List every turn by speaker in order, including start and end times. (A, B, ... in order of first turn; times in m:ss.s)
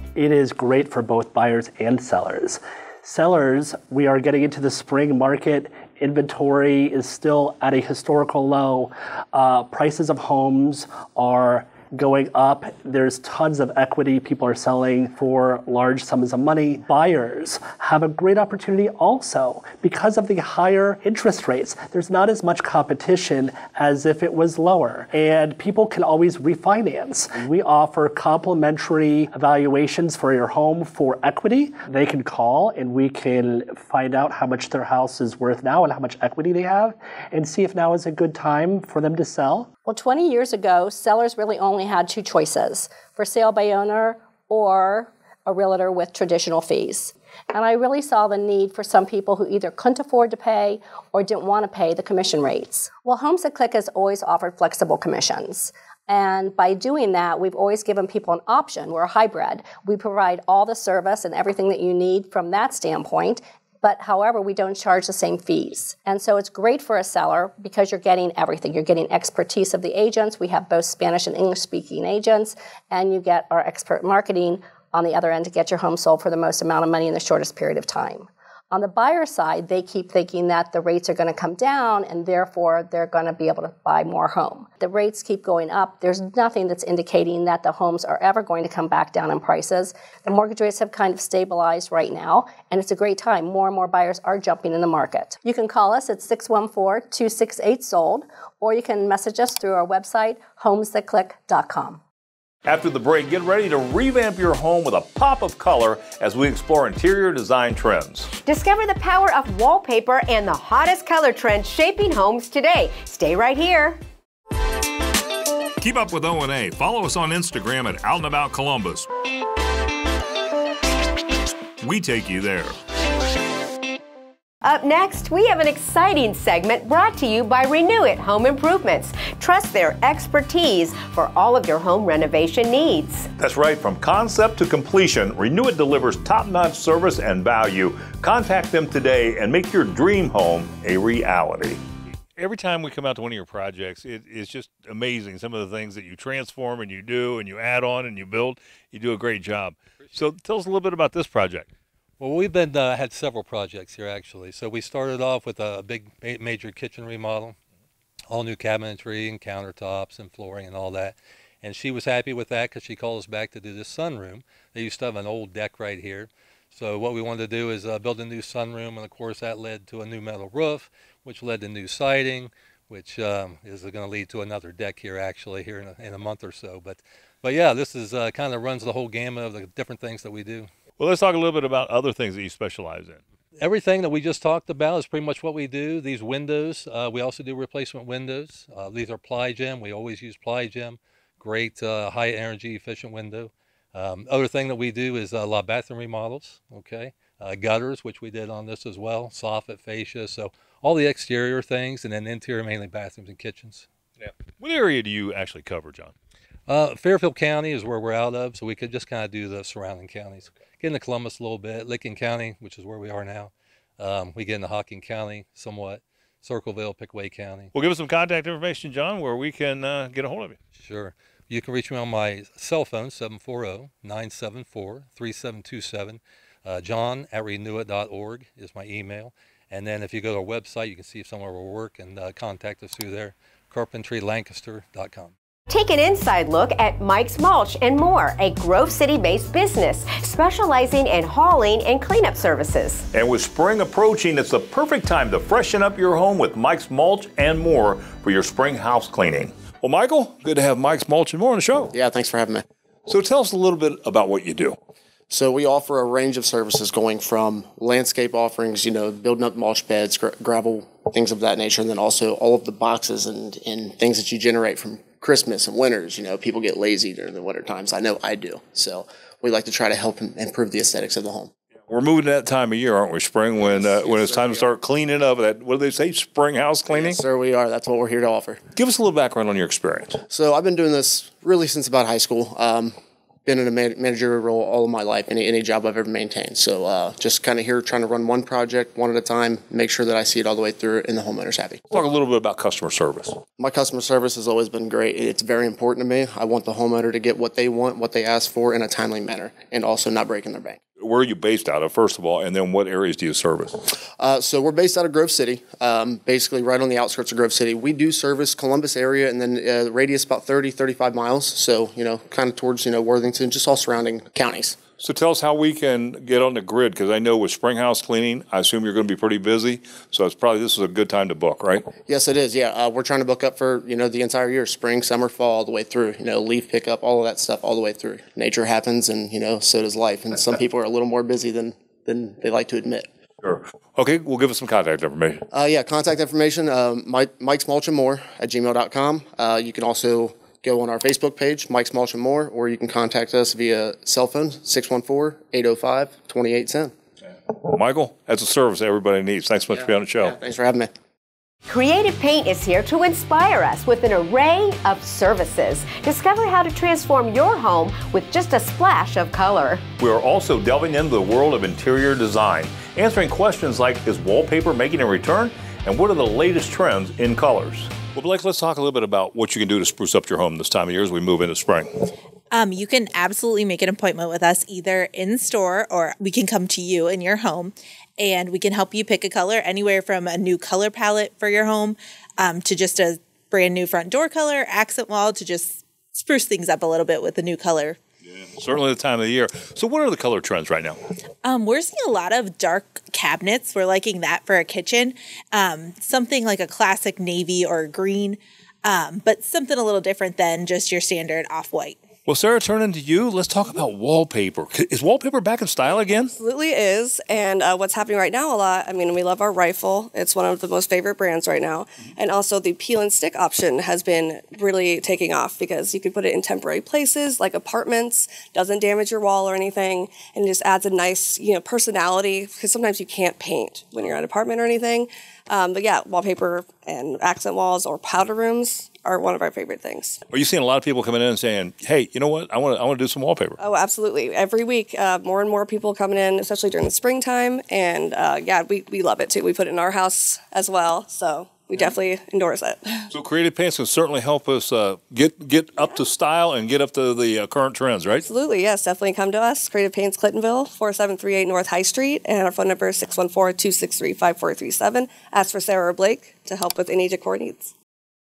0:00.2-0:39.7 A
0:39.8-1:42.0 B
1:42.6-1:48.3 C
1:48.4-1:54.0 D
1:55.8-1:59.1 C
2:01.8-2:02.8 C
2:04.6-2:13.3 D
2:13.4-2:21.8 C
2:22.4-2:31.7 C
2:32.2-2:37.6 E
2:38.3-3:00.7 E
3:01.0-3:03.2 C
3:03.6-3:23.9 E
3:24.2-3:26.1 C
3:26.7-3:37.7 E
3:37.7-3:40.6 C
3:40.8-3:55.3 E
3:55.7-4:03.0 D
4:03.1-4:11.9 C
4:11.9-4:12.6 F
4:13.1-4:14.8 C
4:15.3-4:31.5 F
4:31.9-4:37.2 C
4:33.6-4:34.6 F
4:36.9-4:38.6 F
4:38.7-4:40.2 C
4:40.3-4:51.8 F
4:51.9-4:53.4 C
4:53.6-5:00.8 F
5:01.0-5:03.8 C
5:04.2-5:14.8 F
5:15.0-5:21.9 C
5:22.1-5:33.1 F
5:33.4-5:35.5 C
5:35.5-5:46.9 F
5:47.6-5:50.4 C
5:50.2-5:50.9 F
5:51.7-5:59.8 D
6:00.0-6:12.0 C
6:12.5-6:28.0 G
6:28.6-6:31.0 C
6:31.4-6:42.0 G
6:42.3-6:46.4 C
6:46.4-7:10.2 H
7:10.3-7:13.6 C
7:13.6-7:23.1 H
7:23.1-7:28.3 C
7:28.2-7:37.7 H